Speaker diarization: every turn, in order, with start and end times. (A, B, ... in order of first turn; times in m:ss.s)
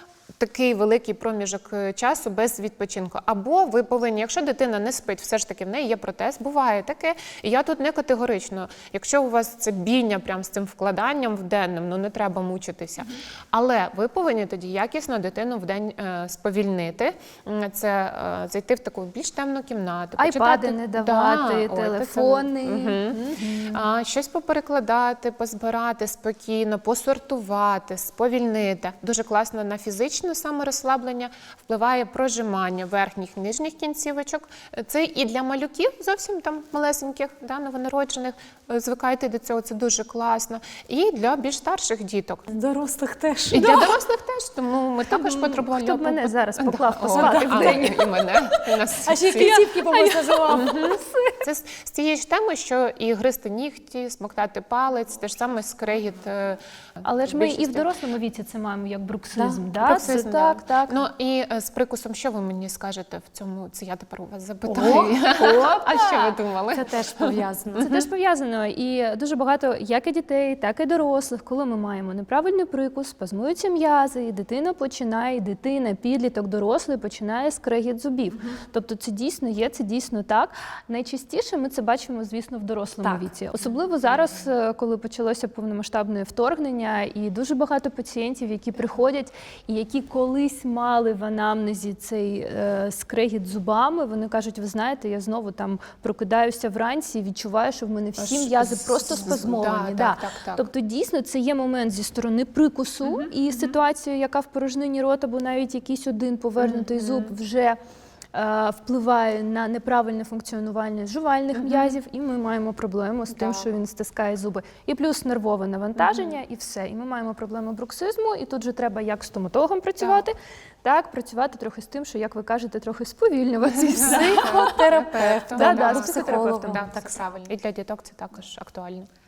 0:00.4-0:42.5 A
0:20.2-0:23.8 B
0:42.5-0:43.9 C
0:43.5-0:49.5 A
0:45.1-0:48.1 B
0:47.1-0:48.0 C
0:49.0-0:50.6 C
0:49.3-0:51.4 B
0:50.5-0:57.9 A
0:57.0-1:01.1 B
0:59.4-0:59.7 C
0:59.8-1:08.0 A
1:04.6-1:05.1 C
1:04.7-1:06.3 B
1:06.7-1:07.8 C
1:07.8-1:47.8 B
1:38.2-1:40.7 A
1:43.0-1:43.8 A
1:46.6-1:47.3 A
1:48.3-2:04.8 B
1:51.5-1:52.0 A
1:53.3-1:53.7 A
1:56.0-1:56.4 A
2:00.0-2:00.2 A
2:03.9-2:09.1 A
2:04.0-2:07.2 C
2:05.5-2:06.8 B